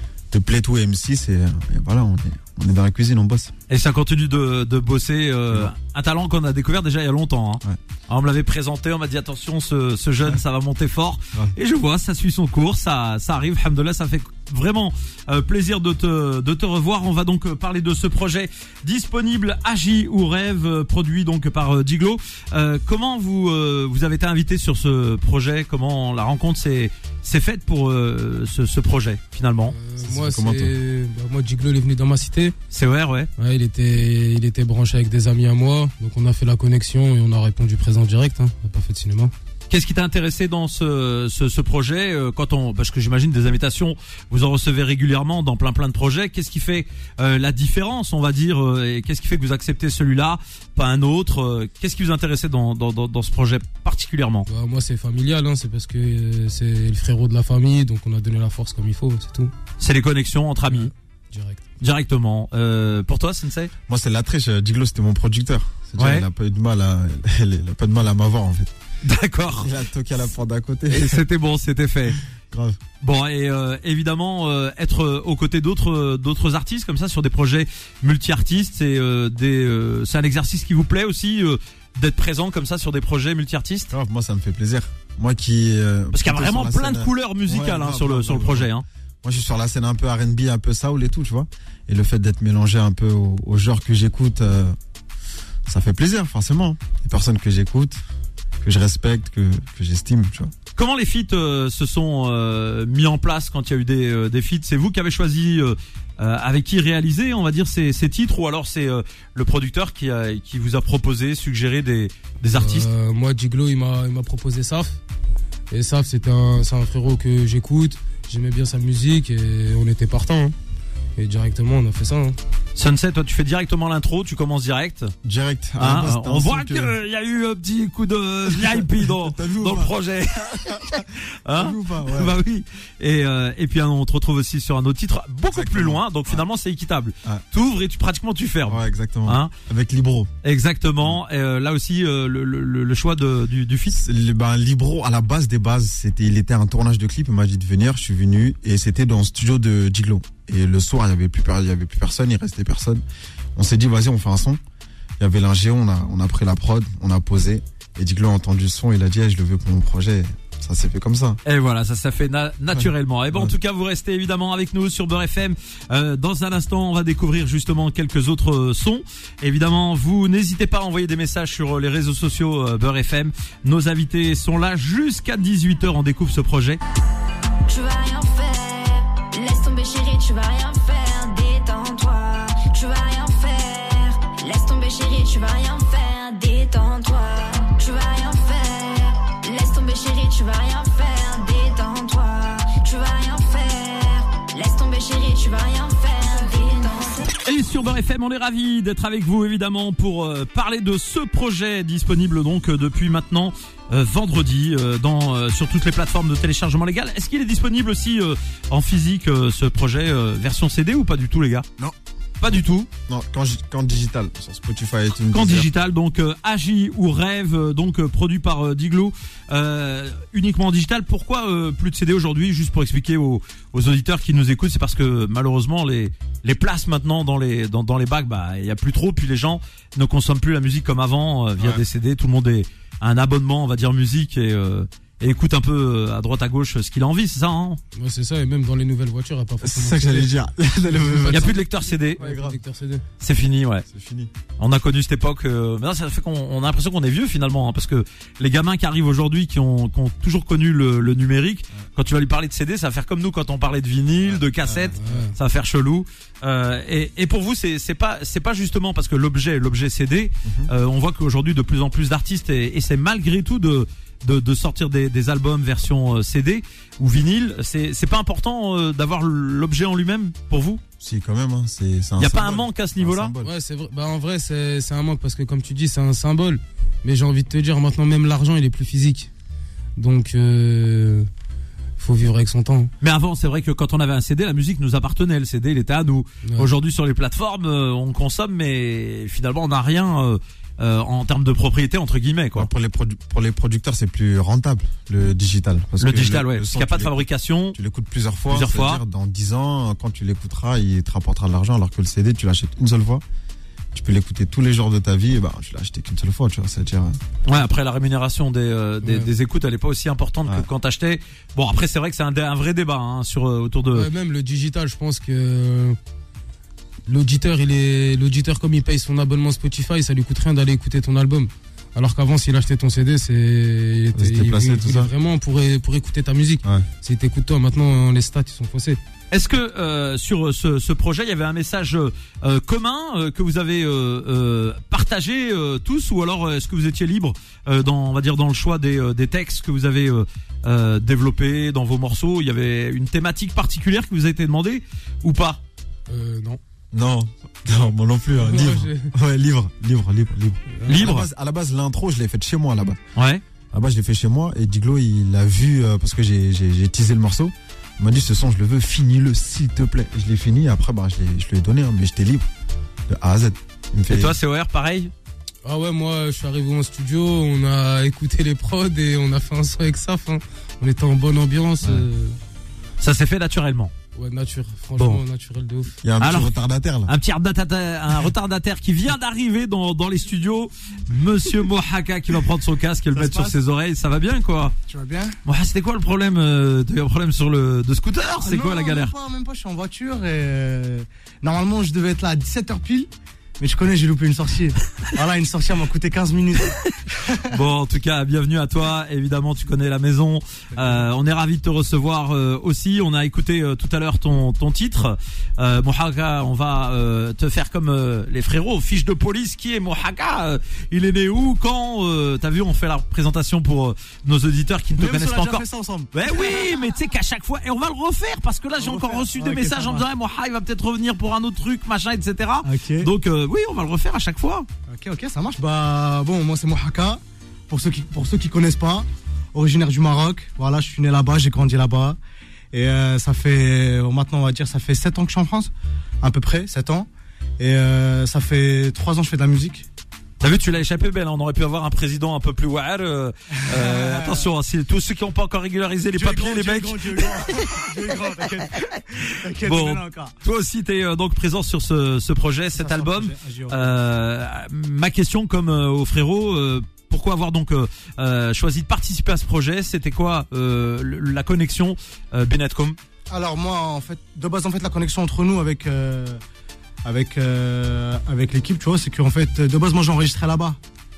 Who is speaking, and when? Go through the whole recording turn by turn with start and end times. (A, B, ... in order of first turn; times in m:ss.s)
0:00.3-0:03.5 A
0:03.7-0:29.7 B
0:29.7-0:32.5 C
0:30.0-0:30.7 A
0:32.7-0:33.3 B
0:33.4-0:39.3 C
0:39.7-0:54.5 B
0:54.5-0:59.5 C
0:59.8-1:00.9 B
1:00.7-1:01.6 C
1:01.8-1:03.7 B
1:03.9-1:08.7 A
1:06.0-1:06.3 B
1:09.0-1:09.7 B
1:09.6-1:11.2 A
1:10.9-1:12.2 B
1:12.4-1:12.8 A
1:13.0-1:23.9 B
1:23.9-1:28.7 A
1:26.1-1:28.8 B
1:29.2-1:34.8 A
1:35.6-1:38.0 A
1:38.6-1:40.5 A
1:40.8-1:52.9 B
1:52.5-1:55.0 C
1:55.7-2:00.5 C
2:01.2-2:02.4 C
2:02.8-2:05.1 B
2:05.2-2:07.0 A
2:05.8-2:19.5 B
2:08.5-2:12.4 A
2:15.5-2:16.4 A
2:18.7-2:20.3 A
2:20.4-2:24.0 B
2:23.9-2:33.0 A
2:33.5-2:34.6 A
2:35.2-2:41.4 A
2:41.4-2:56.8 B
2:42.7-2:43.5 A
2:57.7-3:17.3 D
3:17.4-3:31.7 B
3:32.4-3:32.9 B
3:32.5-3:35.7 A
3:35.3-3:57.8 B
3:51.6-3:51.8 A
3:58.0-4:00.3 C
3:59.6-4:01.6 A
4:00.9-4:01.6 C
4:01.3-4:02.2 B
4:02.2-4:02.6 A
4:02.2-4:03.0 C
4:03.2-4:03.8 B
4:03.9-4:04.3 A
4:04.6-4:30.8 B
4:14.2-4:15.2 A
4:15.0-4:15.3 C
4:20.4-4:20.7 A
4:31.0-4:33.5 A
4:32.2-4:33.3 B
4:33.4-4:39.3 C
4:40.0-4:41.3 C
4:42.0-4:42.9 C
4:43.0-4:52.7 B
4:52.5-4:57.2 A
4:56.0-4:57.8 B
4:57.7-5:03.2 A
4:58.5-4:59.0 B
5:03.9-5:07.2 A
5:07.4-5:14.1 B
5:13.9-5:16.0 C
5:17.1-5:29.0 C
5:24.2-5:25.1 A
5:29.3-5:45.6 B
5:46.1-5:46.6 C
5:46.9-5:53.0 A
5:48.3-5:49.1 C
5:50.8-5:51.0 C
5:50.9-5:51.3 B
5:53.2-5:53.4 B
5:53.7-6:02.4 A
6:03.1-6:04.4 A
6:04.1-6:05.1 B
6:05.6-6:12.4 C
6:13.0-6:13.9 B
6:14.1-6:16.0 C
6:16.0-6:17.1 A
6:16.2-6:16.5 B
6:17.1-6:24.7 B
6:23.1-6:23.6 E
6:24.9-6:25.4 E
6:25.4-6:29.1 B
6:28.4-6:37.5 E
6:37.4-7:04.7 B
6:40.8-6:41.0 E
6:55.0-6:56.8 E
6:58.8-7:00.0 E
7:02.6-7:03.1 E
7:04.9-7:12.2 E
7:12.7-7:19.8 E
7:20.4-7:27.8 B
7:23.6-7:24.5 E
7:26.1-7:30.3 E
7:29.6-7:43.0 B
7:32.7-7:34.0 E
7:43.3-7:46.4 E
7:47.0-7:50.8 E